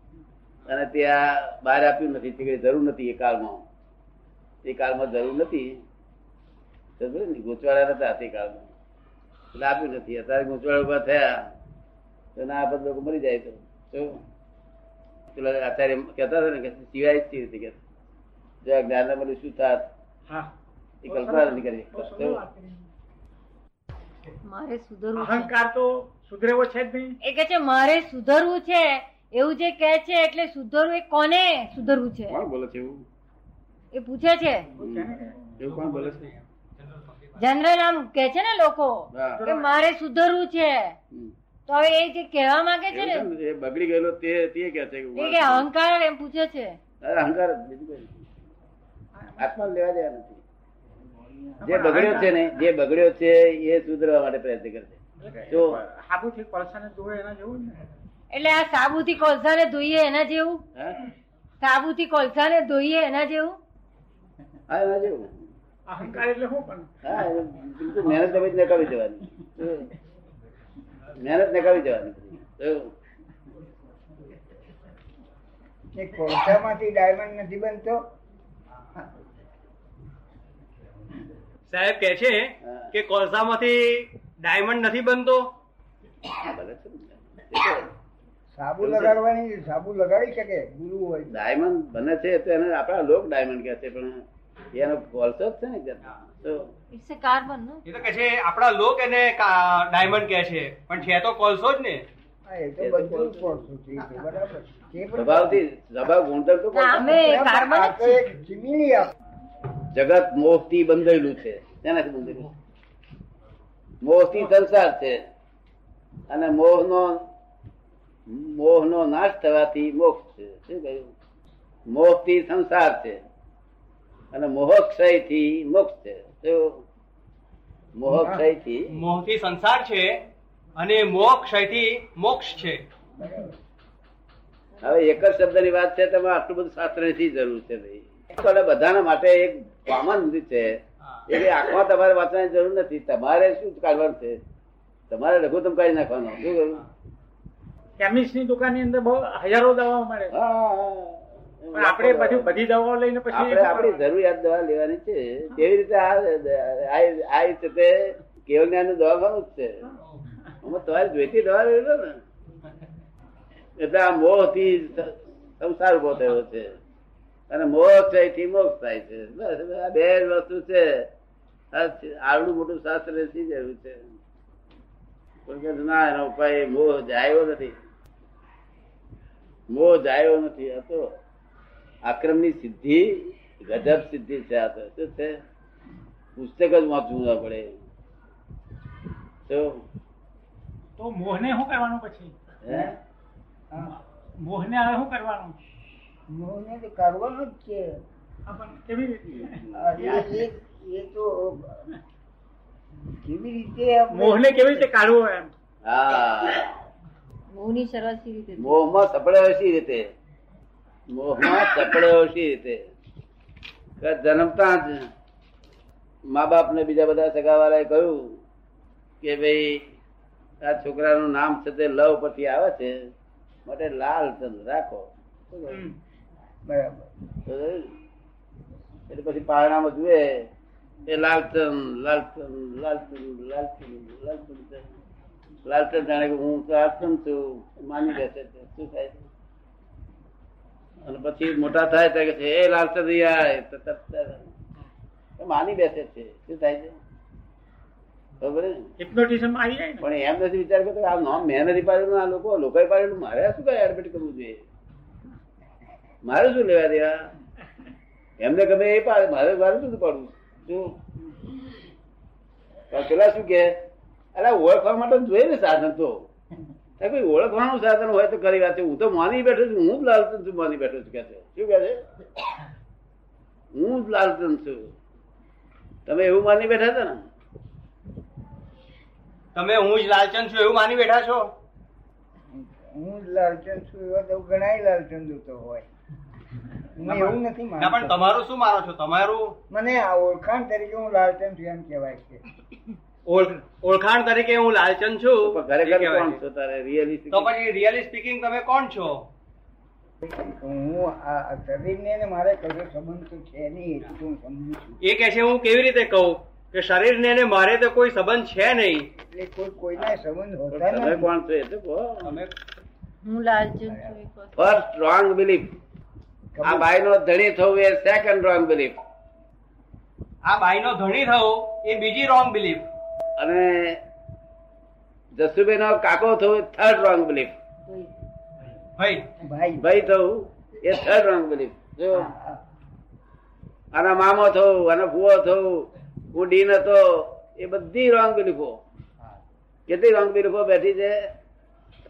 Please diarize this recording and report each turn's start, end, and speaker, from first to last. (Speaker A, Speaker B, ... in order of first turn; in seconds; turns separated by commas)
Speaker A: 0.7-3.6, Speaker A: 4.6-5.8, Speaker A: 7.0-8.7, Speaker A: 9.5-11.4, Speaker A: 12.3-14.2, Speaker A: 15.3-17.8, Speaker A: 18.6-19.8, Speaker A: 21.0-22.4, Speaker B: 21.1-21.4, Speaker B: 21.9-22.8, Speaker C: 24.4-25.5, Speaker B: 25.2-27.1, Speaker C: 27.2-32.4, Speaker A: 32.3-33.0, Speaker C: 33.9-34.7, Speaker A: 34.8-36.2, Speaker B: 34.8-35.4, Speaker D: 35.7-37.5, Speaker C: 37.4-40.9, Speaker A: 39.1-39.4, Speaker B: 39.4-39.7, Speaker C: 41.7-43.3, Speaker A: 42.9-45.7, Speaker C: 45.2-46.8, Speaker A: 47.0-48.2, Speaker B: 49.2-49.5, Speaker A: 49.4-50.4, Speaker B: 51.6-52.4, Speaker A: 51.6-55.8, Speaker B: 55.2-57.8, Speaker C: 58.3-60.6, Speaker A: 60.8-61.0, Speaker C: 61.6-63.6, Speaker A: 64.7-65.3, Speaker B: 65.9-66.9, Speaker A: 67.0-69.9, Speaker A: 71.2-72.9, Speaker E: 75.9-78.0, Speaker D: 81.7-85.5, Speaker A: 82.6-82.9, Speaker A: 86.3-87.9, Speaker E: 88.5-91.3, Speaker A: 88.8-89.2, Speaker A: 91.3-96.7, Speaker C: 96.9-97.8, Speaker D: 97.8-102.0, Speaker E: 102.5-105.6, Speaker A: 102.8-103.6, Speaker A: 105.2-107.3, Speaker C: 106.7-108.2, Speaker E: 107.2-109.1, Speaker A: 109.9-112.5, Speaker A: 114.0-115.2, Speaker A: 116.3-117.3, Speaker A: 118.3-121.1, Speaker A: 121.9-123.2, Speaker A: 124.3-126.8, Speaker A: 128.0-128.9, Speaker D: 128.9-130.2, Speaker D: 130.8-132.8, Speaker E: 133.2-133.5, Speaker A: 134.8-140.8, Speaker A: 141.3-144.4, Speaker A: 145.1-146.8, Speaker B: 148.0-150.3, Speaker A: 150.3-152.5, Speaker B: 151.7-154.0, Speaker A: 153.3-159.9, Speaker A: 160.6-162.2, Speaker A: 163.8-166.8, Speaker A: 167.5-171.1, Speaker A: 171.7-174.1, Speaker A: 175.5-177.7, Speaker A: 179.7-181.1, Speaker A: 182.0-185.4, Speaker A: 186.3-187.7, Speaker A: 189.4-189.8, Speaker B: 191.0-192.3, Speaker A: 192.6-192.9, Speaker E: 192.7-192.9, Speaker B: 194.4-195.6, Speaker E: 196.3-198.0, Speaker B: 198.5-200.3, Speaker E: 199.7-201.9, Speaker E: 203.2-204.9, Speaker B: 204.1-205.5, Speaker A: 205.8-206.7, Speaker C: 207.5-208.8, Speaker A: 208.6-210.0, Speaker A: 211.1-212.8, Speaker A: 214.0-215.1, Speaker A: 216.3-218.4, Speaker A: 219.2-219.9, Speaker A: 220.6-223.1, Speaker A: 223.7-225.9, Speaker E: 226.7-227.1, Speaker A: 227.5-227.9, Speaker A: 229.1-230.5, Speaker A: 231.1-234.8, Speaker A: 235.7-239.2, Speaker A: 241.0-244.4, Speaker A: 245.4-246.9, Speaker A: 248.4-248.9, Speaker B: 249.0-250.0, Speaker A: 250.0-254.6, Speaker A: 256.2-257.1, Speaker A: 258.4-261.0, Speaker A: 262.9-263.8, Speaker A: 264.4-266.2, Speaker A: 267.0-272.0, Speaker A: 273.7-274.9, Speaker A: 276.1-277.2, Speaker D: 279.5-281.5, Speaker E: 282.5-285.9, Speaker E: 286.9-288.2, Speaker D: 287.0-289.6, Speaker E: 289.7-292.4, Speaker D: 293.2-296.4, Speaker A: 295.4-297.5, Speaker D: 297.3-299.2, Speaker E: 300.2-305.0, Speaker D: 305.0-309.1, Speaker E: 309.2-311.3, Speaker A: 310.7-312.4, Speaker D: 312.2-312.5, Speaker C: 313.2-314.5, Speaker E: 313.9-314.1, Speaker A: 314.5-315.7, Speaker E: 316.5-316.9, Speaker A: 316.6-319.0, Speaker D: 320.4-322.9, Speaker A: 323.4-324.0, Speaker A: 325.4-327.5, Speaker C: 327.8-328.1, Speaker D: 329.0-329.2, Speaker E: 329.4-329.8, Speaker A: 329.8-332.3, Speaker E: 332.1-332.6, Speaker A: 333.9-338.8, Speaker A: 339.9-341.2